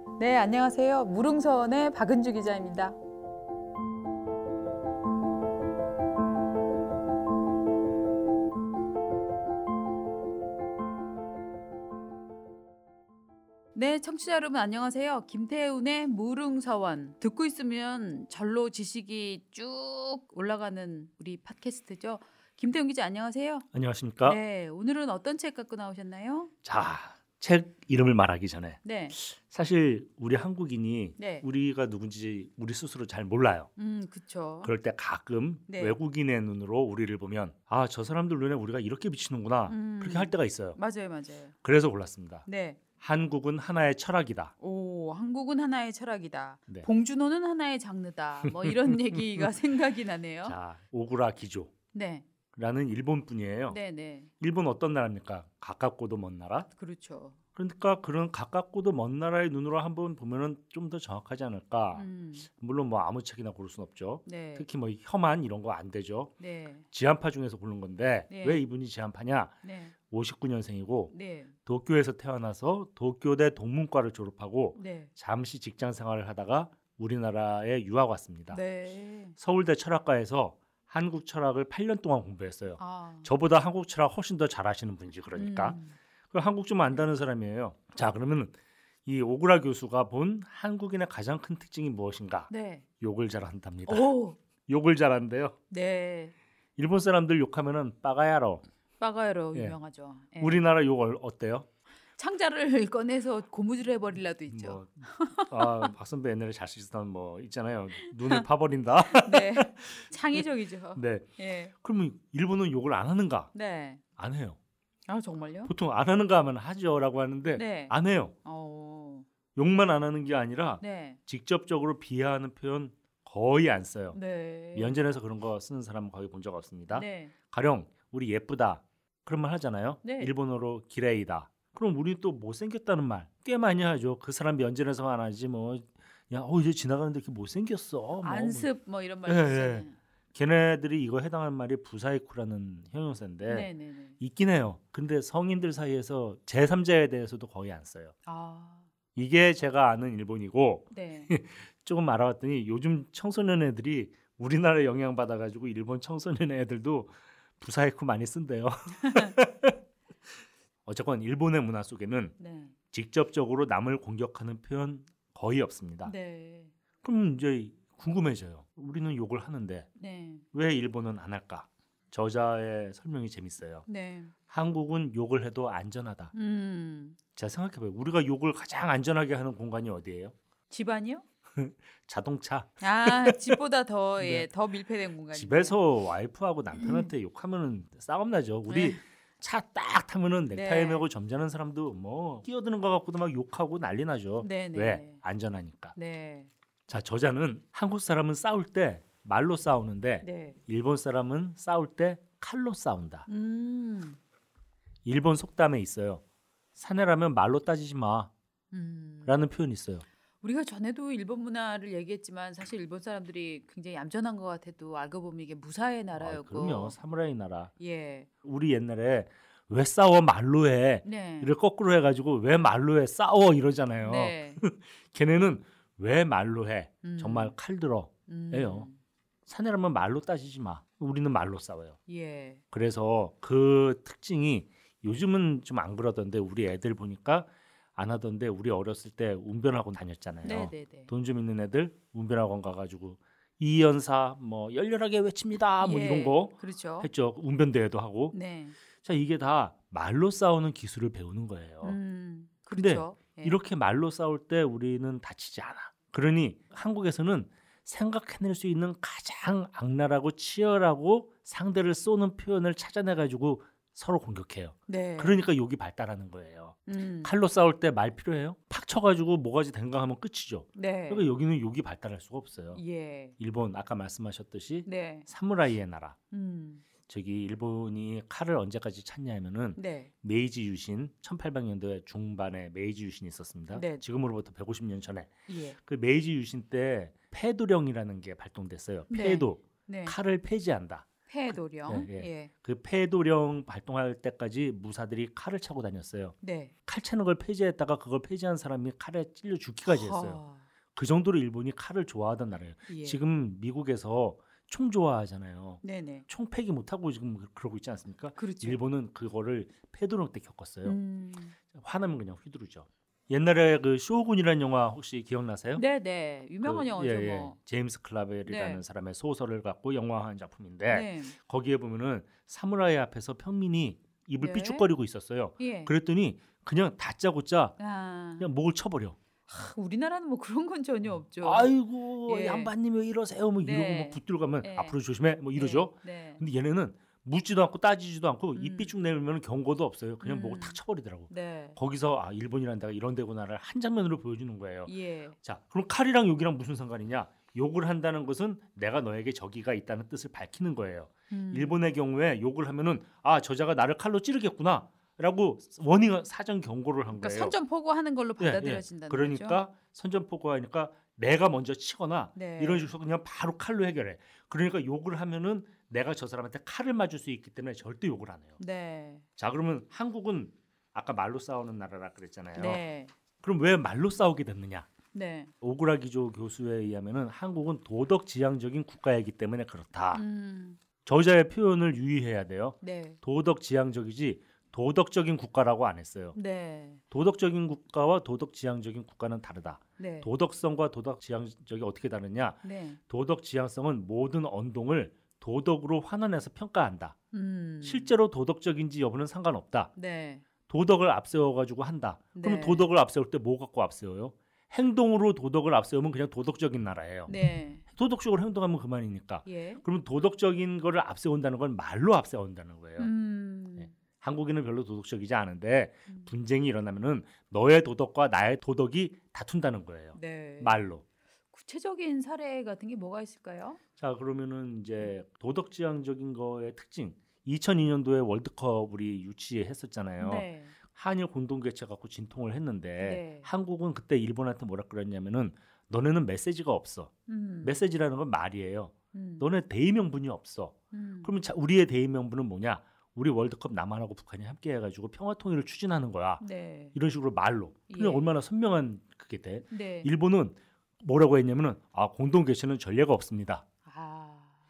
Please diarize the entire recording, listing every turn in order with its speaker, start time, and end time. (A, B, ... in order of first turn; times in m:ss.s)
0:00.2-0:03.0 A
0:13.7-0:23.6 A
0:23.7-0:24.4 B
0:24.2-0:26.5 A
0:26.6-0:33.7 B
0:28.8-0:29.2 A
0:31.2-0:31.4 A
0:33.8-0:34.7 A
0:34.6-0:40.8 B
0:35.7-0:36.0 A
0:39.7-0:41.5 A
0:41.6-0:42.4 B
0:42.4-0:42.8 A
0:43.0-0:44.5 B
0:44.6-0:50.6 A
0:48.4-0:49.5 B
0:50.4-0:51.7 B
0:51.9-0:52.2 A
0:52.5-0:53.8 B
0:53.7-0:54.3 A
0:54.4-0:56.7 B
0:56.7-0:57.4 A
0:57.5-1:06.3 B
1:01.9-1:02.5 A
1:04.2-1:04.7 A
1:06.4-1:06.8 A
1:06.9-1:09.5 B
1:08.3-1:08.6 A
1:09.6-1:09.9 A
1:10.1-1:11.1 B
1:11.1-1:11.5 A
1:11.6-1:18.6 B
1:14.8-1:15.1 A
1:18.5-1:19.4 A
1:19.4-1:25.8 B
1:22.8-1:23.3 A
1:25.3-1:26.0 A
1:26.3-1:35.6 B
1:32.5-1:32.8 A
1:33.9-1:34.4 A
1:35.7-1:36.3 A
1:36.8-1:38.6 B
1:39.0-1:40.6 A
1:40.4-1:41.7 B
1:42.2-1:45.9 A
1:44.5-1:53.5 B
1:49.1-1:51.7 A
1:53.5-1:54.0 A
1:54.2-1:54.6 B
1:55.1-1:55.7 A
1:55.6-1:58.3 B
1:57.5-1:57.9 A
1:58.4-1:59.3 A
1:59.5-2:04.2 B
2:00.8-2:01.2 A
2:04.1-2:05.0 A
2:04.7-2:18.7 B
2:06.9-2:07.3 A
2:10.0-2:10.3 A
2:18.2-2:19.9 A
2:19.2-2:28.1 B
2:23.4-2:24.2 A
2:28.2-2:28.9 A
2:29.1-2:39.8 B
2:30.9-2:31.3 A
2:40.8-2:42.3 B
2:42.4-2:42.7 A
2:42.9-2:46.1 B
2:46.0-2:46.7 A
2:47.0-2:49.9 B
2:50.0-2:50.4 A
2:50.5-2:53.8 B
2:53.9-2:54.3 A
2:54.5-2:56.3 B
2:56.3-2:57.2 A
2:57.3-3:00.3 B
3:00.7-3:01.2 A
3:01.6-3:03.6 B
3:02.8-3:05.8 A
3:04.2-3:04.5 B
3:05.3-3:16.0 B
3:06.7-3:07.1 A
3:08.7-3:09.0 A
3:10.5-3:11.1 A
3:14.4-3:15.2 A
3:16.0-3:16.5 A
3:16.9-3:23.3 B
3:20.2-3:20.6 A
3:23.3-3:24.2 A
3:25.0-3:26.2 B
3:26.8-3:28.3 B
3:28.7-3:29.4 A
3:29.2-3:30.0 B
3:30.4-3:37.0 A
3:36.2-3:37.7 B
3:37.8-3:38.3 A
3:38.4-3:48.9 B
3:41.0-3:41.5 A
3:44.0-3:44.6 A
3:47.0-3:47.5 A
3:48.3-3:49.0 A
3:49.4-3:52.0 B
3:52.1-3:52.6 A
3:52.7-4:08.4 B
4:00.4-4:01.1 A
4:05.8-4:07.1 A
4:08.3-4:08.8 A
4:09.0-4:12.0 B
4:11.8-4:13.6 A
4:12.7-4:32.8 B
4:24.9-4:25.4 A
4:26.9-4:27.3 A
4:30.8-4:31.2 A
4:32.7-4:33.4 A
4:33.4-4:36.2 B
4:34.8-4:35.3 A
4:36.3-4:36.8 A
4:37.0-4:56.3 B
4:39.8-4:40.1 A
4:43.7-4:44.0 A
4:45.5-4:45.8 A
4:49.1-4:50.2 A
4:51.3-4:52.5 A
4:56.4-4:56.7 A
4:56.8-5:00.4 B
4:59.9-5:00.6 A
5:00.9-5:11.0 B
5:02.9-5:03.2 A
5:05.8-5:06.2 A
5:08.4-5:08.8 A
5:10.8-5:11.6 A
5:11.6-5:15.8 B
5:15.7-5:17.6 A
5:16.6-5:27.8 B
5:18.4-5:18.8 A
5:20.9-5:21.4 A
5:24.4-5:24.9 A
5:25.6-5:25.9 A
5:27.8-5:28.5 A
5:28.4-5:29.2 B
5:29.5-5:32.7 A
5:31.4-5:57.5 B
5:33.6-5:35.0 A
5:35.5-5:36.4 A
5:38.5-5:38.9 A
5:40.2-5:41.8 A
5:44.8-5:45.4 A
5:51.3-5:51.8 A
5:57.1-5:59.6 A
5:58.4-6:08.6 B
6:02.3-6:02.9 A
6:08.6-6:09.2 A
6:09.4-6:12.8 B
6:12.6-6:13.1 A
6:13.4-6:14.9 B
6:15.1-6:15.5 A
6:15.6-6:20.2 B
6:20.1-6:20.8 A
6:21.0-6:26.4 B
6:22.8-6:23.2 A
6:26.3-6:27.0 A
6:27.1-6:37.2 B
6:30.0-6:30.3 A
6:32.6-6:33.0 A
6:37.3-6:38.1 A
6:37.8-6:39.9 B
6:40.0-6:40.4 A
6:40.7-6:47.3 B
6:42.3-6:42.9 A
6:47.3-6:47.8 A
6:47.9-6:53.1 B
6:49.4-6:49.8 A
6:53.0-6:53.9 A
6:53.8-7:01.0 B
7:00.1-7:00.8 A
7:01.5-7:03.8 A
7:04.0-7:17.1 B
7:10.2-7:10.8 A
7:13.0-7:13.5 A
7:17.3-7:17.8 A
7:17.6-7:33.6 B
7:19.1-7:19.5 A
7:20.9-7:21.3 A
7:26.4-7:27.0 A
7:27.9-7:28.3 A
7:29.7-7:30.1 A
7:33.8-7:34.6 A